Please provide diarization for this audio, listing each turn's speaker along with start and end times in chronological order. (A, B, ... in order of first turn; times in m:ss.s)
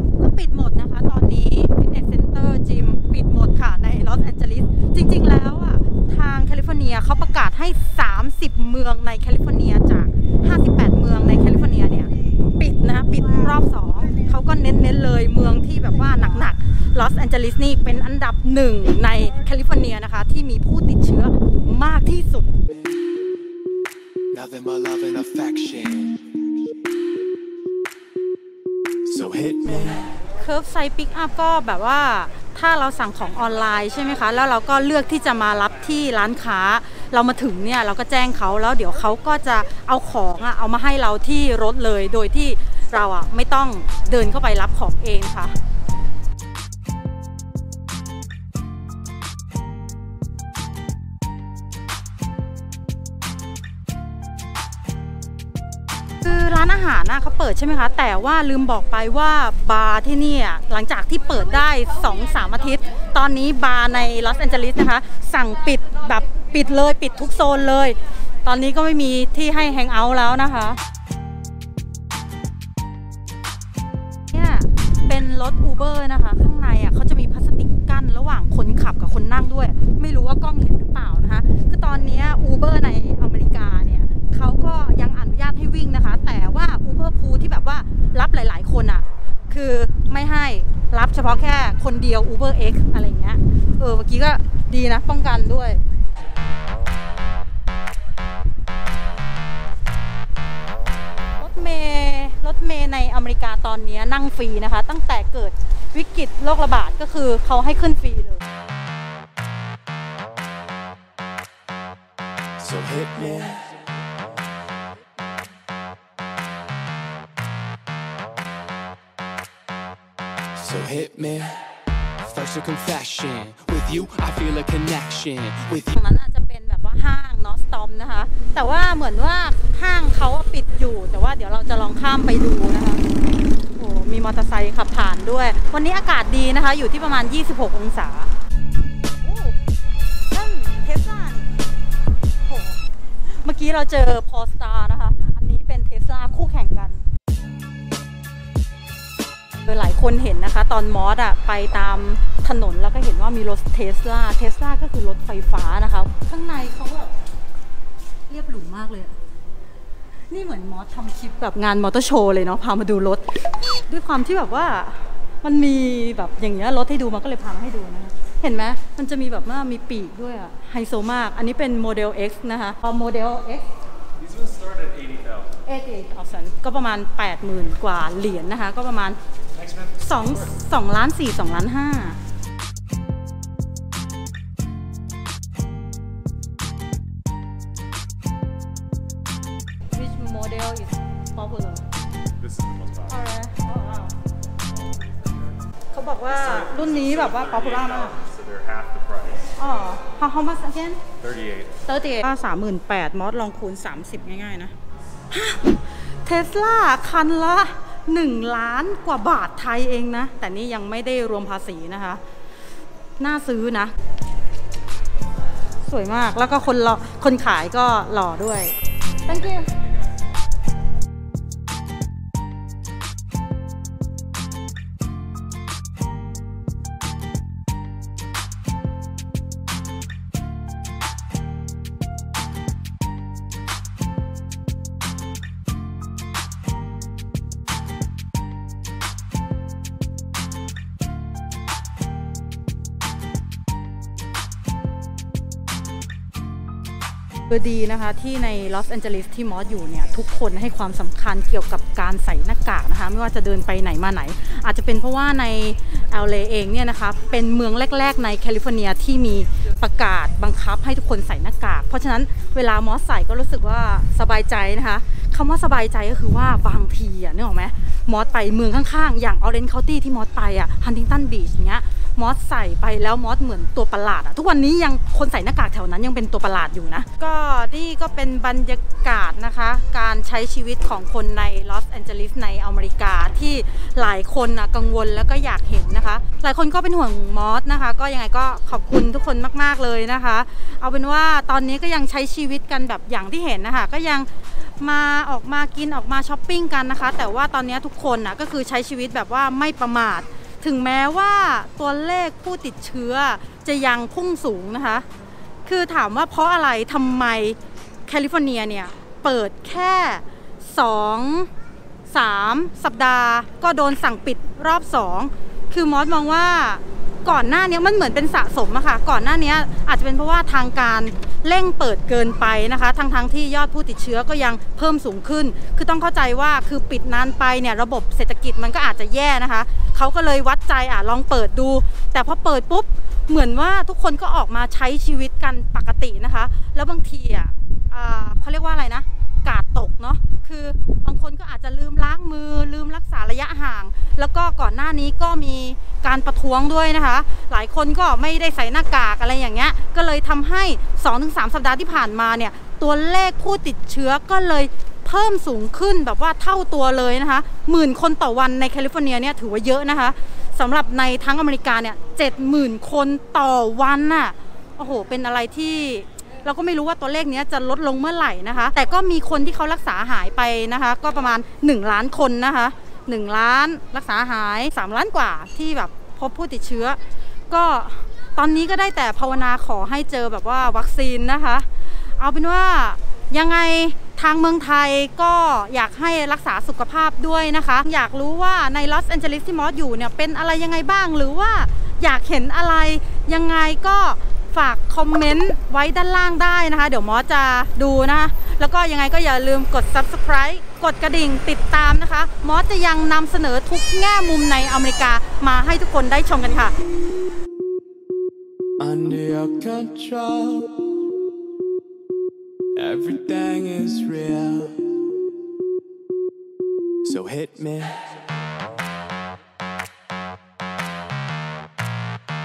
0:00.2-0:22.6 A
0:24.3-0:26.4 B
0:29.1-0:30.1 B
0:30.4-0:45.5 A
0:56.2-1:10.8 A
1:14.3-1:35.8 A
1:41.4-1:48.4 A
1:52.6-1:53.7 B
2:00.6-2:01.6 B
2:02.2-2:05.9 B
2:05.9-2:13.0 A
2:13.8-2:18.3 A
2:19.2-2:19.5 A
2:20.3-2:21.6 A
2:22.4-2:27.0 A
2:29.6-2:37.1 A
2:38.3-2:39.2 A
2:40.3-2:53.6 A
2:54.3-2:55.4 C
2:55.6-2:59.2 A
2:59.9-3:02.2 A
3:09.9-3:11.8 A
3:12.4-3:13.0 C
3:13.1-3:14.1 A
3:14.8-3:15.5 C
3:15.9-3:18.2 A
3:18.2-3:19.4 C
3:19.6-3:21.0 A
3:21.2-3:21.7 C
3:21.8-3:24.7 A
3:25.3-3:32.2 A
3:33.2-3:33.9 A
3:35.8-3:38.7 A
3:39.2-3:39.7 A
4:07.5-5:05.0 A
5:05.6-5:11.5 A
5:12.1-6:17.0 A
6:17.5-6:46.7 A
6:48.8-6:51.1 B
6:52.7-6:55.0 B
6:57.0-6:58.1 B